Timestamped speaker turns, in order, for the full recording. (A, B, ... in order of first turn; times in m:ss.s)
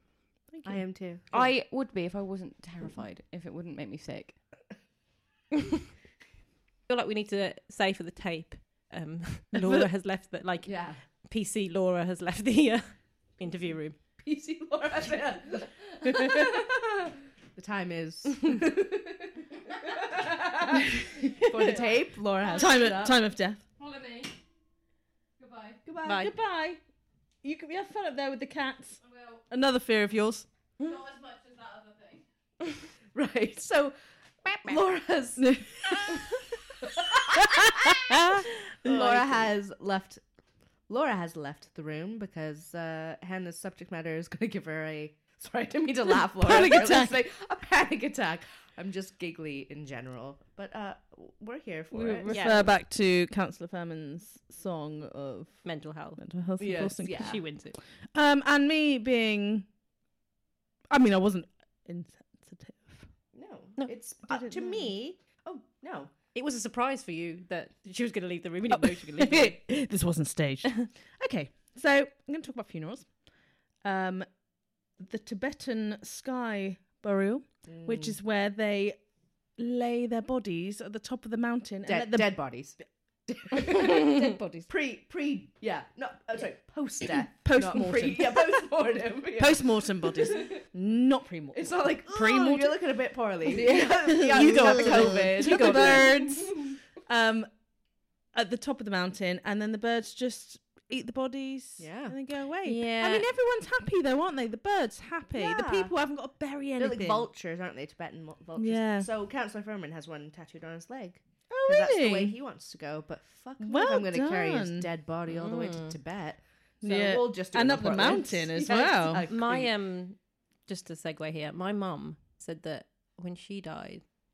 0:00.6-0:01.5 A
0:01.3-0:04.4 B
0:06.9-0:14.0 C
0:10.6-0:11.0 A
0:14.2-0:20.8 A
0:20.9-0:21.8 D
0:21.5-0:23.2 A
0:22.6-0:23.6 D
0:23.8-0:24.4 B
0:25.4-0:25.8 B
0:26.0-0:26.8 D
0:26.0-0:26.3 C
0:27.4-0:30.5 D
0:30.8-0:32.2 B
0:33.1-0:40.2 A
0:35.4-0:35.7 D
0:40.9-0:52.5 A
0:46.4-0:47.1 D
0:51.9-0:55.6 D
0:52.3-0:52.7 C
0:55.6-0:56.2 C
0:56.2-0:57.3 D
0:56.6-0:57.4 A
0:57.2-0:57.8 C
0:58.1-0:59.6 D
1:00.9-1:03.1 D
1:03.3-1:06.1 A
1:04.3-1:04.9 D
1:06.3-1:09.6 C
1:08.7-1:13.2 D
1:13.8-1:14.3 D
1:15.0-1:19.0 D
1:17.6-1:18.2 A
1:19.6-1:22.4 D
1:21.9-1:30.6 A
1:23.5-1:24.7 D
1:27.3-1:28.6 D
1:29.4-1:32.8 D
1:31.5-1:36.1 A
1:33.5-1:37.5 D
1:34.3-1:36.2 C
1:38.3-1:47.3 D
1:41.8-1:42.2 A
1:42.6-1:43.3 C
1:45.3-1:45.9 A
1:46.8-1:59.7 A
1:48.6-1:49.1 D
1:51.5-1:52.4 D
1:53.6-1:54.9 D
1:55.3-1:56.0 C
1:56.8-1:59.2 D
1:59.3-2:04.0 C